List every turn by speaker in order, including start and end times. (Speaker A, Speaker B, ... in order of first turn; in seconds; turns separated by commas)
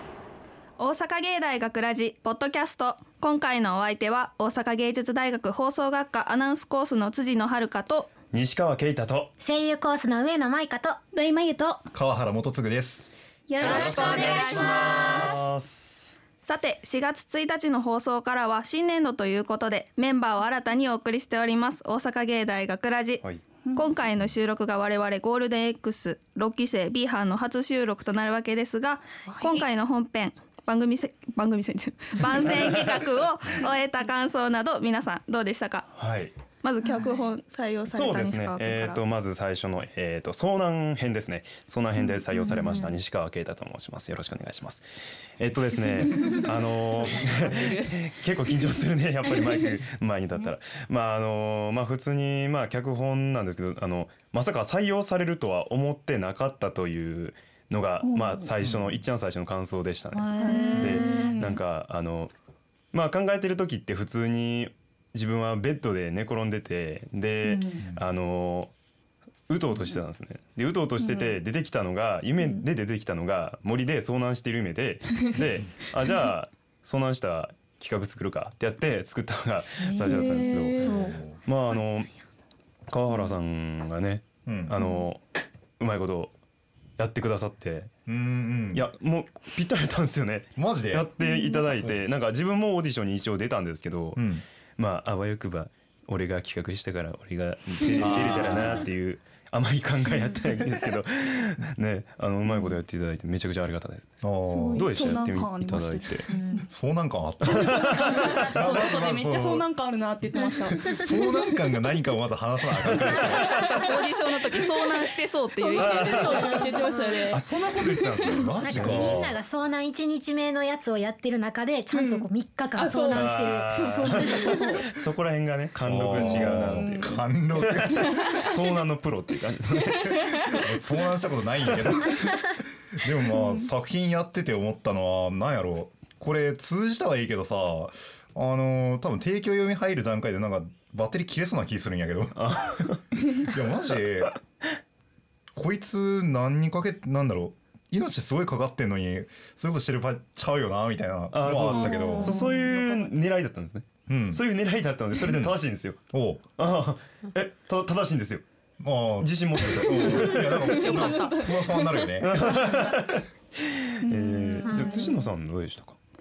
Speaker A: 0.8-8.1, Speaker B: 8.3-9.3, Speaker C: 9.4-11.0, Speaker D: 11.1-11.8, Speaker E: 11.9-13.0, Speaker D: 13.5-15.1, Speaker A: 13.6-15.4, Speaker B: 13.6-16.1, Speaker A: 16.4-23.2, Speaker A: 23.8-35.9, Speaker D: 29.3-29.6, Speaker B: 32.5-32.9, Speaker B: 36.0-36.3, Speaker A: 36.6-39.0, Speaker B: 37.9-44.8, Speaker C: 42.4-42.9, Speaker B: 45.4-62.3, Speaker D: 46.1-46.4, Speaker D: 47.1-48.0, Speaker D: 58.0-58.5, Speaker E: 58.6-59.0, Speaker C: 60.1-61.4, Speaker A: 60.4-61.0, Speaker D: 60.4-61.6, Speaker B: 62.9-68.7, Speaker D: 67.5-67.8, Speaker B: 69.5-80.9, Speaker D: 71.0-71.4, Speaker C: 79.8-81.8, Speaker D: 80.0-81.2, Speaker E: 80.8-81.4, Speaker B: 81.5-82.1, Speaker B: 82.9-85.2, Speaker E: 84.5-84.7, Speaker B: 85.8-86.3, Speaker B: 87.0-87.9, Speaker E: 88.1-88.8, Speaker B: 88.7-94.2, Speaker E: 90.6-91.1, Speaker E: 91.7-92.0, Speaker E: 94.2-94.4, Speaker B: 94.8-104.2, Speaker E: 98.0-98.8, Speaker C: 98.3-98.8, Speaker E: 104.2-104.9, Speaker D: 104.5-106.7, Speaker B: 104.8-106.3, Speaker C: 106.3-106.7, Speaker E: 106.7-109.7, Speaker B: 107.5-108.4, Speaker D: 107.5-111.0, Speaker C: 110.7-111.1, Speaker E: 110.9-113.5, Speaker B: 112.9-113.8, Speaker D: 113.6-113.8, Speaker A: 113.8-116.5, Speaker D: 115.6-117.4, Speaker B: 115.8-116.5, Speaker C: 116.3-117.4, Speaker B: 117.3-119.3, Speaker E: 117.7-119.3, Speaker C: 118.6-124.7, Speaker D: 121.9-124.9, Speaker B: 123.1-130.6, Speaker E: 125.8-128.1, Speaker D: 126.2-127.2, Speaker D: 128.0-128.5, Speaker D: 129.9-130.6, Speaker E: 130.6-132.3, Speaker E: 133.0-144.3, Speaker D: 133.3-133.7, Speaker B: 142.3-143.0, Speaker E: 145.6-152.3, Speaker B: 151.3-156.0, Speaker C: 151.7-152.5, Speaker D: 151.9-153.1, Speaker E: 154.1-154.4, Speaker E: 155.2-155.6, Speaker E: 156.1-156.4, Speaker B: 156.6-158.4, Speaker E: 158.8-162.7, Speaker B: 159.2-161.1, Speaker D: 160.7-162.9, Speaker A: 160.8-161.4, Speaker B: 162.2-163.2, Speaker B: 163.9-166.0, Speaker D: 164.0-165.2, Speaker C: 164.6-165.3